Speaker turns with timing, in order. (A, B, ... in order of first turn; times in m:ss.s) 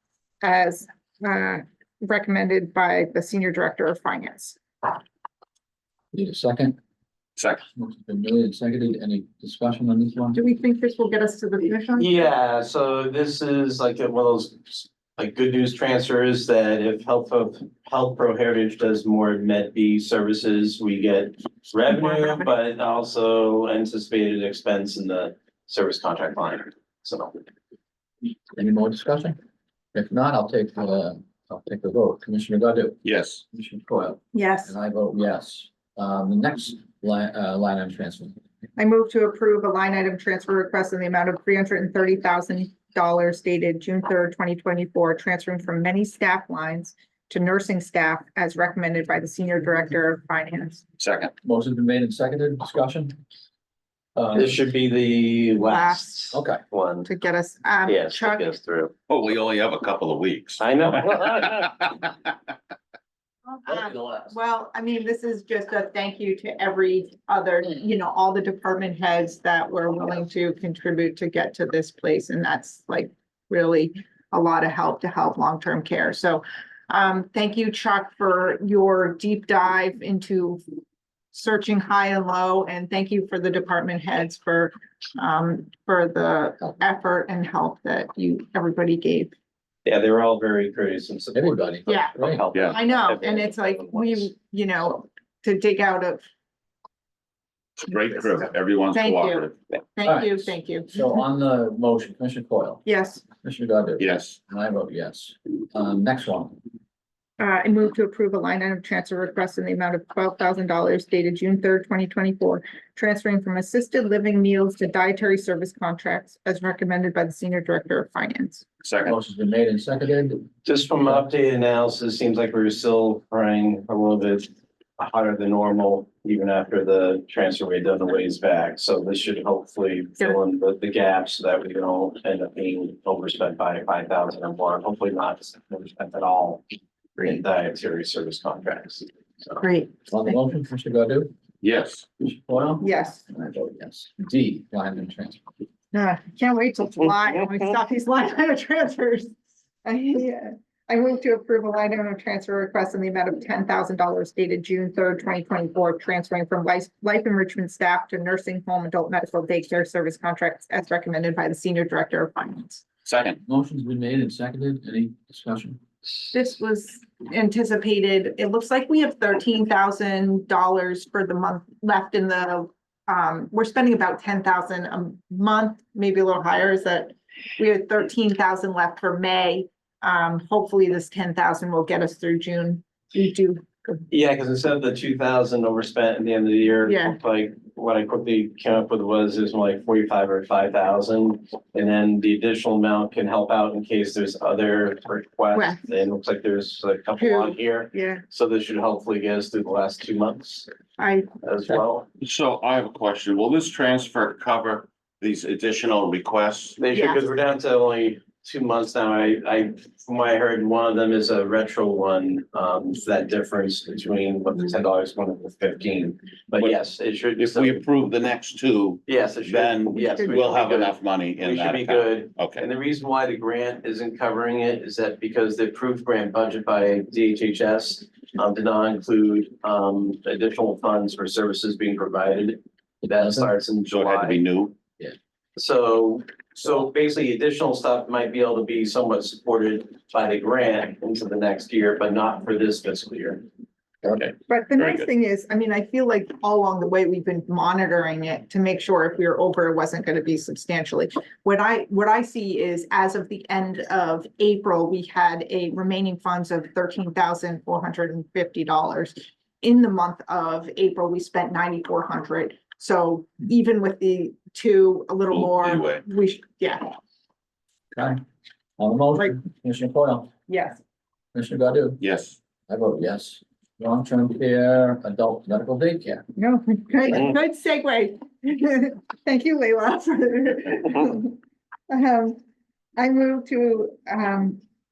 0:00.4-0:04.6 A
0:06.1-0:06.8 B
0:07.4-0:07.6 C
0:07.7-0:10.4 B
0:10.4-0:12.2 A
0:12.0-0:27.5 D
0:22.0-0:22.5 A
0:28.5-0:29.4 B
0:29.9-0:38.4 B
0:33.0-0:33.4 C
0:34.3-0:34.7 A
0:38.8-0:50.8 A
0:51.0-0:51.3 C
0:51.4-0:53.2 B
0:54.2-0:54.6 B
0:54.4-0:57.1 D
0:55.7-0:56.0 A
0:56.3-0:56.6 B
0:57.0-0:58.5 A
0:57.9-0:58.9 D
0:59.1-1:00.6 C
1:00.6-1:01.6 D
1:01.4-1:02.0 C
1:03.5-1:20.6 A
1:03.8-1:04.2 B
1:21.3-1:29.3 A
1:29.8-1:34.3 D
1:31.4-1:32.5 B
1:31.9-1:36.2 A
1:37.8-1:39.6 C
1:38.9-1:41.2 A
1:40.0-1:42.8 B
1:42.8-1:43.2 A
1:43.4-1:46.6 B
1:44.0-1:44.4 C
1:47.4-1:58.6 A
1:58.8-1:59.2 C
1:59.0-2:00.5 B
2:00.6-2:16.6 D
2:17.2-2:19.6 D
2:19.6-2:19.9 A
2:20.1-2:21.3 B
2:21.6-2:22.1 C
2:22.2-2:25.4 B
2:22.8-2:23.2 A
2:25.9-2:29.3 A
2:29.8-2:42.8 A
2:43.1-2:43.4 C
2:43.5-2:45.8 B
2:46.3-3:04.0 A
3:04.1-3:20.7 D
3:06.9-3:07.2 A
3:15.6-3:15.8 A
3:17.2-3:18.2 A
3:21.0-3:21.3 A
3:21.4-3:22.1 D
3:22.2-3:26.8 C
3:26.8-3:37.8 D
3:26.9-3:27.2 A
3:37.4-3:42.7 C
3:39.1-3:54.4 D
3:40.0-3:40.4 A
3:53.0-3:53.5 B
3:53.8-3:54.8 C
3:55.6-4:03.4 D
4:04.0-4:05.0 C
4:04.5-4:26.9 A
4:25.3-4:26.0 C
4:27.9-4:28.2 B
4:28.8-4:30.3 B
4:30.5-4:30.8 A
4:31.3-4:32.0 B
4:32.0-4:32.4 C
4:32.7-4:36.2 B
4:36.4-4:42.4 A
4:43.0-4:44.6 A